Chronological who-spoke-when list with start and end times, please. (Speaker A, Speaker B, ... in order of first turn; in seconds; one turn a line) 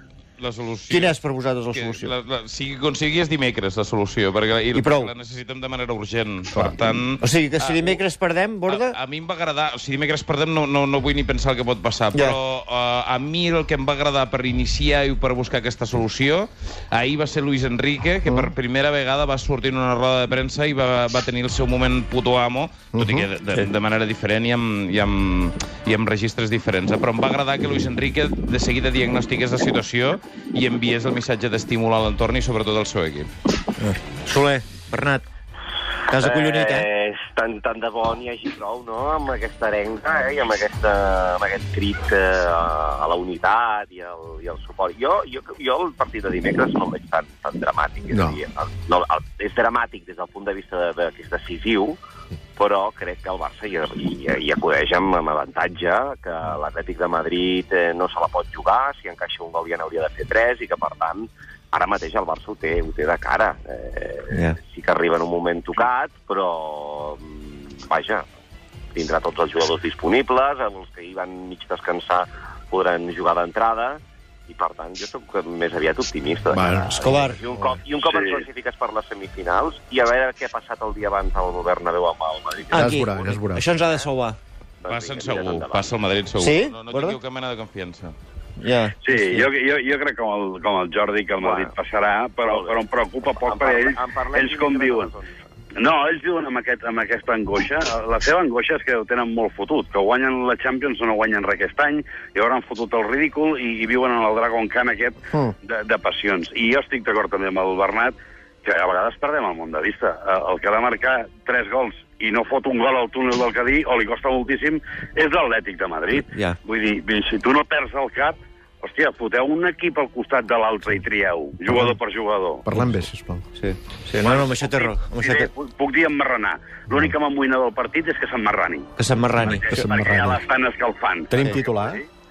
Speaker A: 0.4-1.2
Speaker B: 0.9-2.1
Speaker A: 1.7-8.0
Speaker B: 4.7-5.1
Speaker B: 7.2-9.0
Speaker A: 8.7-33.3
Speaker B: 12.1-12.4
Speaker B: 33.8-35.2
Speaker B: 36.1-36.9
Speaker C: 36.2-52.0
Speaker D: 48.1-48.4
Speaker C: 52.6-68.2
Speaker B: 64.3-64.6
Speaker C: 69.0-84.1
Speaker D: 76.5-76.9
Speaker B: 77.0-77.4
Speaker B: 82.7-84.4
Speaker D: 82.8-83.7
Speaker C: 84.8-85.9
Speaker A: 84.8-88.2
Speaker B: 86.4-87.2
Speaker B: 88.6-89.5
Speaker E: 89.0-95.1
Speaker C: 91.4-91.7
Speaker C: 92.5-95.4
Speaker E: 95.8-122.6
Speaker B: 116.1-116.6
Speaker D: 121.7-122.0
Speaker D: 122.7-123.5
Speaker B: 123.6-125.5
Speaker E: 124.2-128.9
Speaker B: 129.0-129.8
Speaker D: 129.4-130.4
Speaker E: 129.6-132.0
Speaker D: 131.3-132.0
Speaker B: 131.3-131.6